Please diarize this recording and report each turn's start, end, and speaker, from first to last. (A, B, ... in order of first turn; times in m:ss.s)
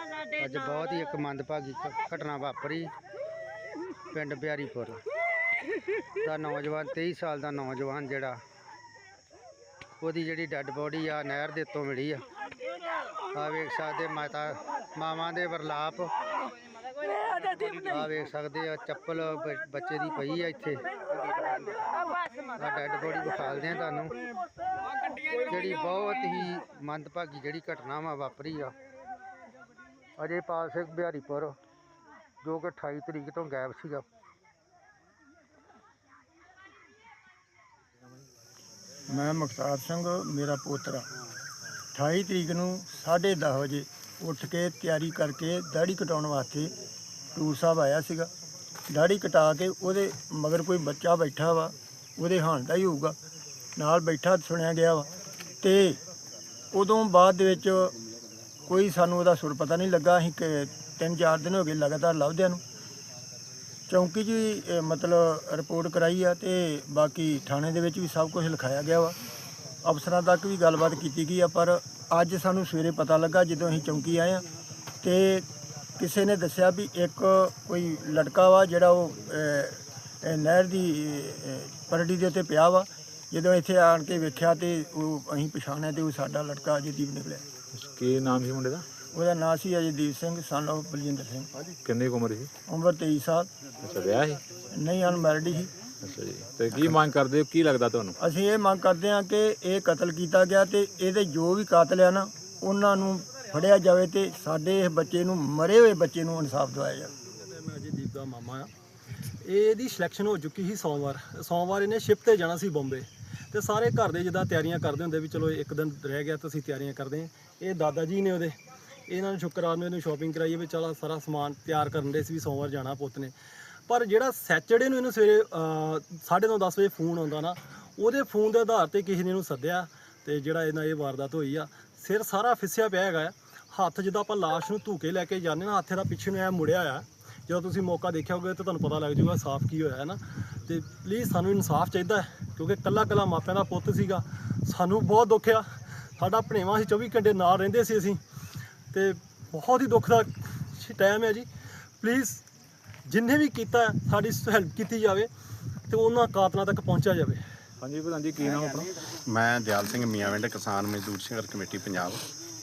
0:00.3-0:02.9 A
0:04.1-0:05.0 A
0:06.2-0:08.4 A
0:10.0-0:12.2 A
0:13.3-0:16.1 A
0:17.7-0:21.7 A
0:22.6-0:24.2 A
0:25.4-0:28.7 A
0:30.2-0:31.6 A
0:32.4-0:34.0 A
0:39.1-0:41.1 B
0:41.9-0:46.7 B
0:47.3-0:48.3 B
0:48.9-0:53.2 B
0:53.8-0:55.1 B
0:55.6-0:56.0 B
0:56.7-0:57.9 B
0:58.7-1:02.6 B
1:03.9-1:09.1 B
1:09.8-1:14.4 B
1:15.0-1:15.5 B
1:16.0-1:27.4 B
1:27.7-1:28.8 C
1:29.1-1:31.5 B
1:31.8-1:32.5 C
1:32.7-1:33.5 B
1:33.8-1:34.4 C
1:34.7-1:35.7 B
1:36.0-1:38.1 C
1:38.2-1:47.1 B
1:47.3-1:48.7 D
1:49.4-1:58.6 D
1:59.1-2:03.3 D
2:03.9-2:25.7 D
2:26.2-2:28.2 D
2:28.9-2:31.5 D
2:32.0-2:32.4 D
2:33.0-2:35.3 D
2:35.9-2:37.4 D
2:37.8-2:39.0 C
2:39.1-2:42.2 E